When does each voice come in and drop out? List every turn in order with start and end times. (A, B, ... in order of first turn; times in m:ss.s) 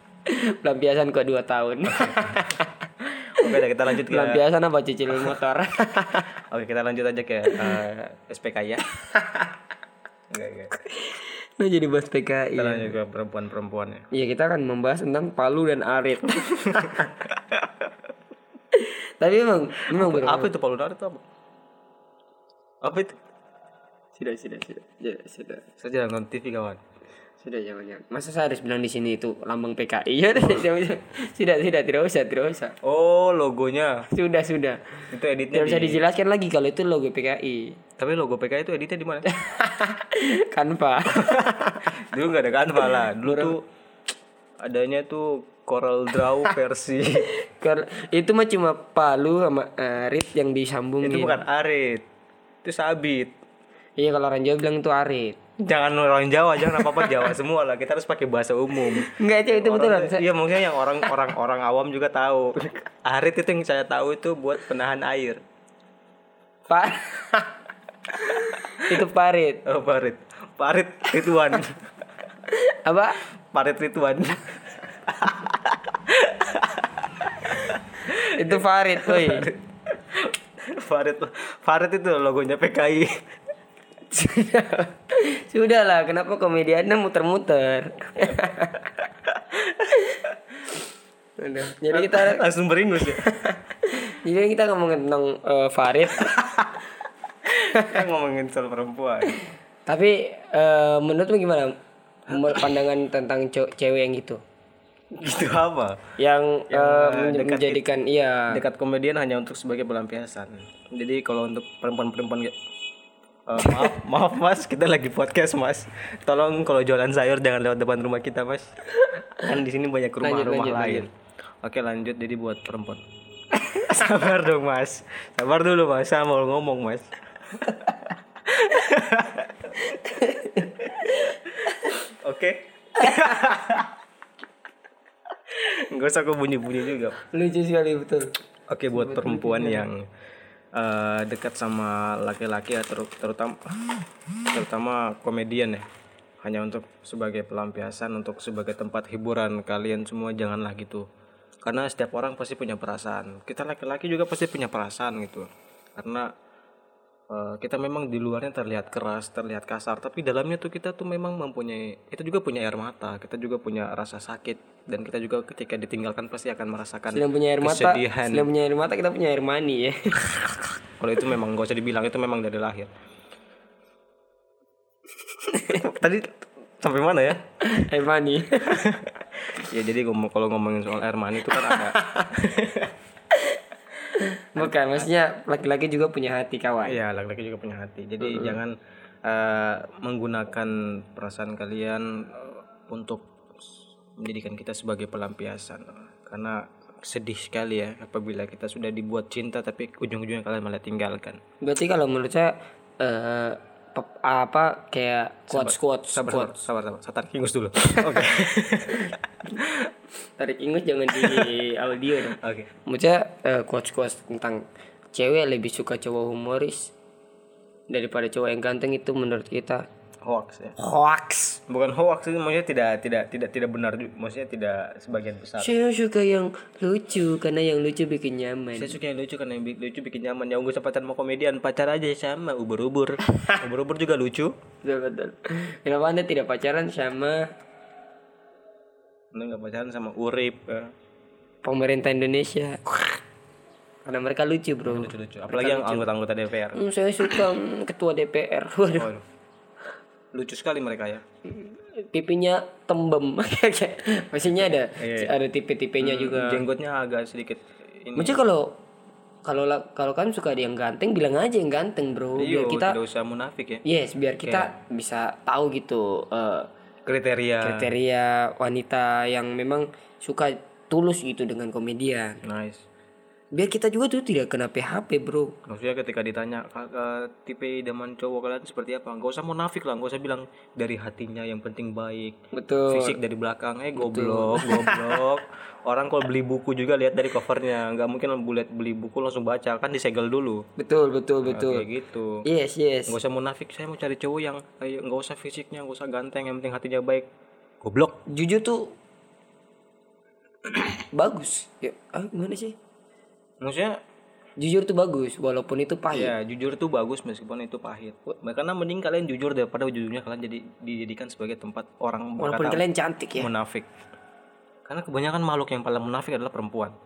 0:00.3-0:06.3 A
0:01.9-0:02.3 B
0:03.4-0:04.4 B
0:06.5-0:08.8 B
0:09.1-0:09.5 A
0:10.3-0:10.7 B
0:10.8-0:12.9 A
0:12.6-0:14.1 B
0:14.1-0:17.1 A
0:18.7-0:20.5 A
0:19.9-0:21.2 B
0:22.8-0:23.2 B
0:24.2-0:25.6 A
0:25.8-0:26.8 B
0:27.4-0:32.7 A
0:32.8-0:34.1 B
0:34.1-0:37.8 A
0:35.1-0:36.0 B
0:38.0-0:39.3 B
0:39.3-0:42.0 A
0:41.2-0:43.6 B
0:42.9-0:43.5 A
0:44.6-0:47.3 B
0:47.4-0:51.4 A
0:51.0-0:52.0 B
0:52.6-0:53.3 B
0:54.0-0:55.4 A
0:55.6-1:05.4 B
0:56.7-0:57.0 A
0:59.0-1:00.2 A
1:06.7-1:07.6 A
1:08.1-1:09.6 A
1:09.6-1:11.8 B
1:12.5-1:13.2 A
1:13.5-1:23.2 B
1:18.1-1:19.5 A
1:24.1-1:28.9 A
1:29.3-1:29.6 B
1:31.4-1:32.4 A
1:31.9-1:33.2 B
1:33.1-1:36.4 A
1:37.5-1:39.4 B
1:39.8-1:41.7 A
1:42.3-1:44.4 A
1:45.1-1:46.0 B
1:46.2-1:48.6 A
1:46.7-1:47.9 B
1:48.5-1:52.5 B
1:53.5-1:58.8 B
1:59.4-2:01.1 B
2:00.2-2:01.1 A
2:01.6-2:03.0 B
2:03.7-2:07.9 B
2:08.4-2:09.7 B
2:09.8-2:11.4 A
2:12.1-2:13.9 B
2:15.5-2:17.2 B
2:17.3-2:18.3 A
2:18.7-2:20.1 B
2:19.0-2:19.8 A
2:20.7-2:23.9 B
2:24.5-2:25.8 B
2:26.4-2:31.1 B
2:31.6-2:36.3 B
2:37.3-2:48.5 B
2:47.1-2:50.6 A
2:51.0-2:52.9 B
2:55.5-2:55.8 A
2:55.7-2:57.4 B
2:57.6-2:59.0 A
2:58.7-3:02.9 B
3:01.5-3:02.3 A
3:03.4-3:07.0 A
3:04.6-3:04.9 B
3:06.8-3:08.7 B
3:08.2-3:08.6 A
3:09.2-3:13.2 B
3:14.2-3:21.4 B
3:21.6-3:26.6 A
3:25.5-3:29.2 B
3:29.5-3:29.8 A
3:30.4-3:36.9 A
3:31.2-3:31.5 B
3:32.4-3:32.7 B
3:37.9-3:39.8 A
3:40.2-3:40.8 B
3:40.8-3:41.6 A
3:41.7-3:45.7 B
3:45.6-3:49.0 A
3:48.7-3:54.5 B
3:54.8-3:57.4 A
3:59.3-4:00.9 B
4:01.6-4:02.9 A
4:04.0-4:06.1 A
4:04.8-4:07.4 B
4:06.7-4:09.1 A
4:09.0-4:09.2 B
4:10.3-4:11.2 B
4:11.4-4:16.6 A
4:14.4-4:15.3 B
4:16.0-4:18.4 B
4:18.2-4:18.7 A
4:19.4-4:23.0 A
4:22.4-4:23.8 B
4:23.8-4:26.7 A
4:24.4-4:24.7 B
4:27.0-4:27.9 B
4:27.6-4:32.4 A
4:32.4-4:32.8 B
4:33.5-4:35.5 A
4:35.7-4:42.4 B
4:42.5-4:43.2 A
4:42.9-4:50.6 B
4:44.0-4:45.2 A
4:50.8-4:51.9 A
4:51.4-4:52.4 B
4:52.4-4:53.2 A
4:53.1-4:57.3 B
4:57.8-4:58.2 B
4:58.3-4:58.9 A
5:01.0-5:02.7 A
5:03.6-5:03.9 B
5:04.6-5:06.3 A
5:06.1-5:12.8 B
5:12.4-5:13.5 A
5:13.4-5:13.9 B
5:14.9-5:16.9 B